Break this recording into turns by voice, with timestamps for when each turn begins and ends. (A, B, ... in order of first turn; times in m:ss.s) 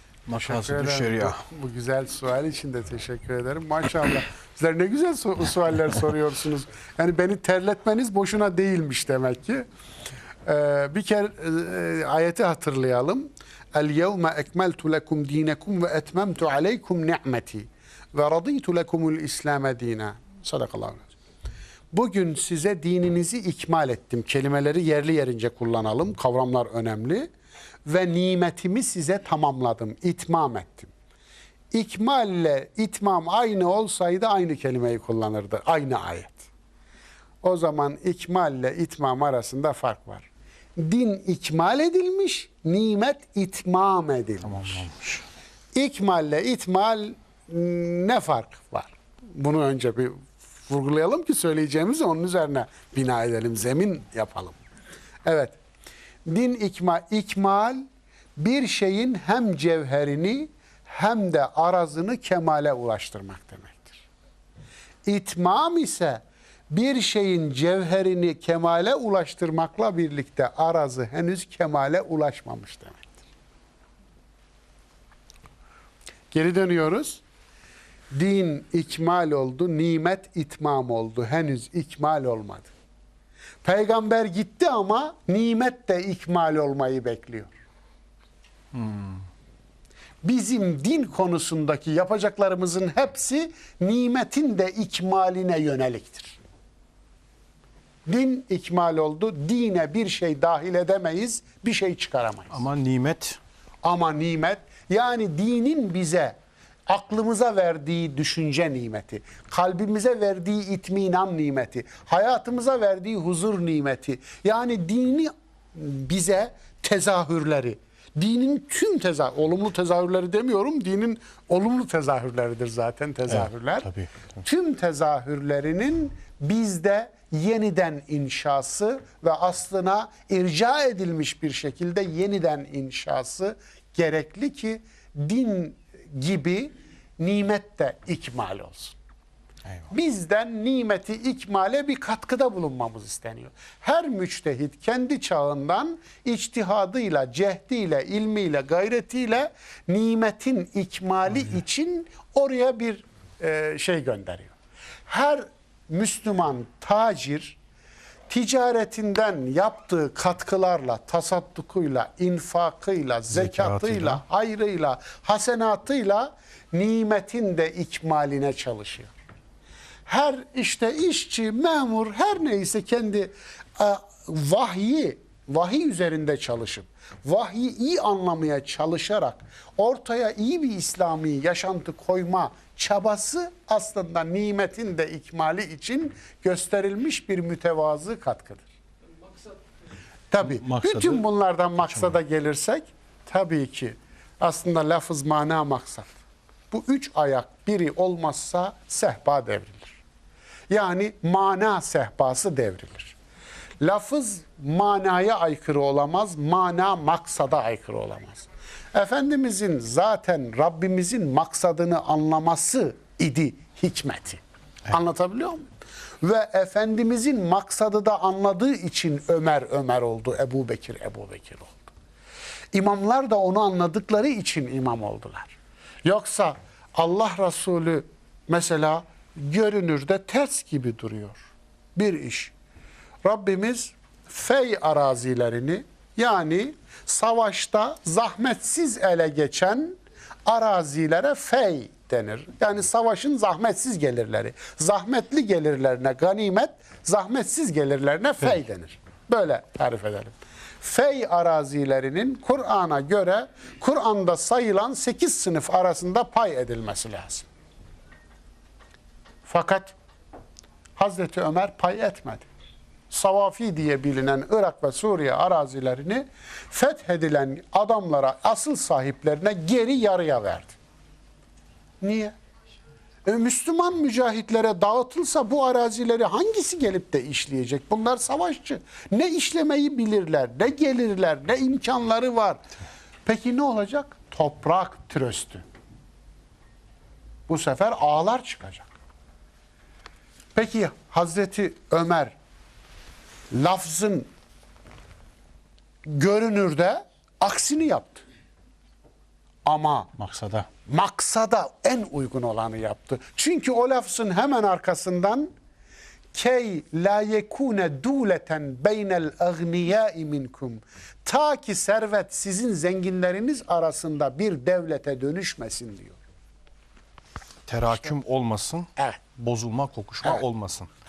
0:00.3-0:01.4 A
0:00.3-0:09.6 B
0:10.4-0:21.1 B
0:21.9-0:27.3 B
0:27.8-0:30.9 B
0:31.7-0:36.5 B
0:37.4-0:44.8 B
0:44.4-0:45.2 A
0:45.7-0:54.6 B
0:55.2-0:55.6 B
0:56.2-0:57.8 B
0:58.4-1:04.0 B
1:05.0-1:13.2 B
1:16.3-1:17.2 B
1:18.1-1:22.7 B
1:23.6-1:27.5 B
1:28.7-1:29.2 A
1:30.2-1:36.4 B
1:38.0-1:42.6 B
1:42.5-1:43.4 A
1:43.8-1:46.4 B
1:46.9-2:19.0 B
2:03.3-2:04.3 A
2:19.9-2:34.5 B
2:35.1-2:37.6 B
2:38.3-2:49.1 B
2:43.3-2:44.2 A
2:50.1-3:08.6 B
3:10.3-3:16.1 B
3:10.4-3:11.2 A
3:11.9-3:12.2 A
3:16.7-3:20.0 B
3:20.7-3:23.2 B
3:23.8-3:35.7 B
3:36.2-3:41.9 B
3:42.7-3:52.5 B
3:53.2-4:17.5 B
4:19.4-4:19.9 B
4:21.0-4:22.4 B
4:23.1-4:30.8 B
4:32.0-4:32.3 B
4:33.2-4:42.6 B
4:43.2-4:45.6 B
4:47.5-4:48.9 B
4:50.5-4:52.3 B
4:53.5-4:54.3 B
4:56.0-4:58.2 B
4:59.6-5:00.1 B
5:00.2-5:00.7 A
5:00.8-5:05.5 B
5:06.3-5:16.2 B
5:17.7-5:20.9 A